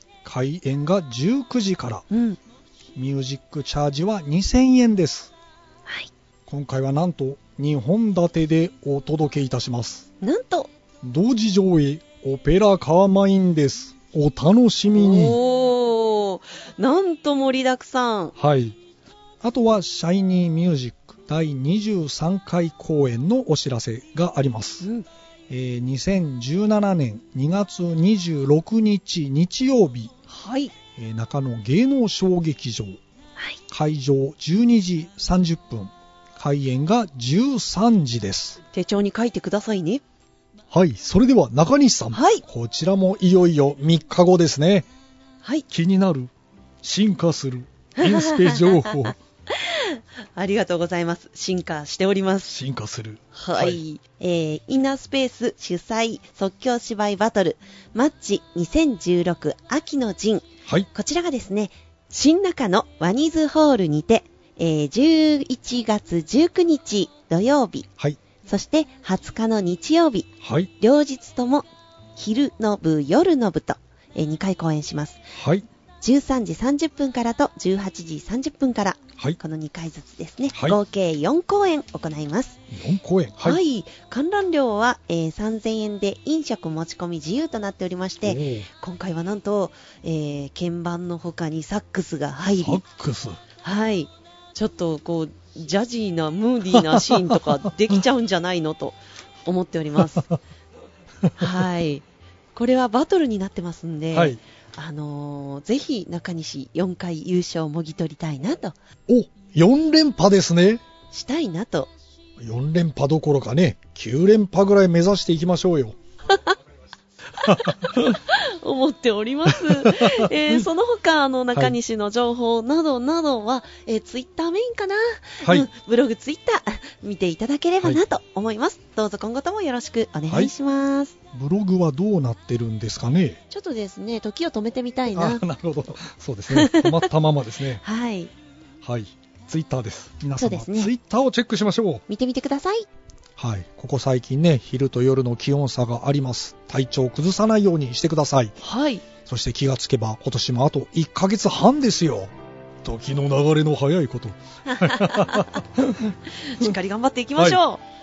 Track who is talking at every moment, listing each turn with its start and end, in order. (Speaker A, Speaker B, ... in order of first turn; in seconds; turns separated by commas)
Speaker A: 0.2-2.0, Speaker B: 2.1-2.4, Speaker A: 3.0-5.3, Speaker A: 6.5-10.1, Speaker B: 10.2-10.7, Speaker A: 11.0-15.4, Speaker B: 14.9-18.3, Speaker A: 18.4-18.8, Speaker A: 19.4-24.9, Speaker B: 24.8-25.1, Speaker A: 25.5-30.1, Speaker B: 30.3-30.7, Speaker A: 31.0-33.0, Speaker A: 33.7-38.6, Speaker B: 38.7-40.0, Speaker A: 40.7-44.9, Speaker B: 42.1-42.4, Speaker A: 45.7-46.3, Speaker A: 46.8-49.2, Speaker B: 48.0-52.5, Speaker A: 52.5-53.8, Speaker B: 53.3-67.9, Speaker B: 68.5-75.2, Speaker A: 70.4-70.7, Speaker A: 75.3-75.7, Speaker B: 76.0-82.6, Speaker A: 80.5-80.8, Speaker A: 82.7-83.6, Speaker B: 83.4-92.8, Speaker A: 88.2-88.7, Speaker A: 92.5-93.4, Speaker B: 93.6-100.3, Speaker B: 101.4-108.8, Speaker A: 104.1-104.4, Speaker A: 109.1-110.8, Speaker B: 111.1-111.9, Speaker A: 112.4-116.0, Speaker B: 117.4-131.1, Speaker A: 117.5-118.0, Speaker A: 119.5-120.7, Speaker A: 125.4-125.7, Speaker A: 130.3-130.5, Speaker A: 131.3-133.4, Speaker B: 133.5-135.4, Speaker A: 135.1-137.8, Speaker B: 136.5-137.1, Speaker B: 137.8-138.3, Speaker A: 138.8-142.0, Speaker B: 140.4-140.9, Speaker B: 142.1-142.9, Speaker A: 143.4-148.6, Speaker B: 148.6-149.0, Speaker A: 149.3-152.3, Speaker A: 152.8-156.7, Speaker B: 154.7-155.6, Speaker B: 156.3-157.8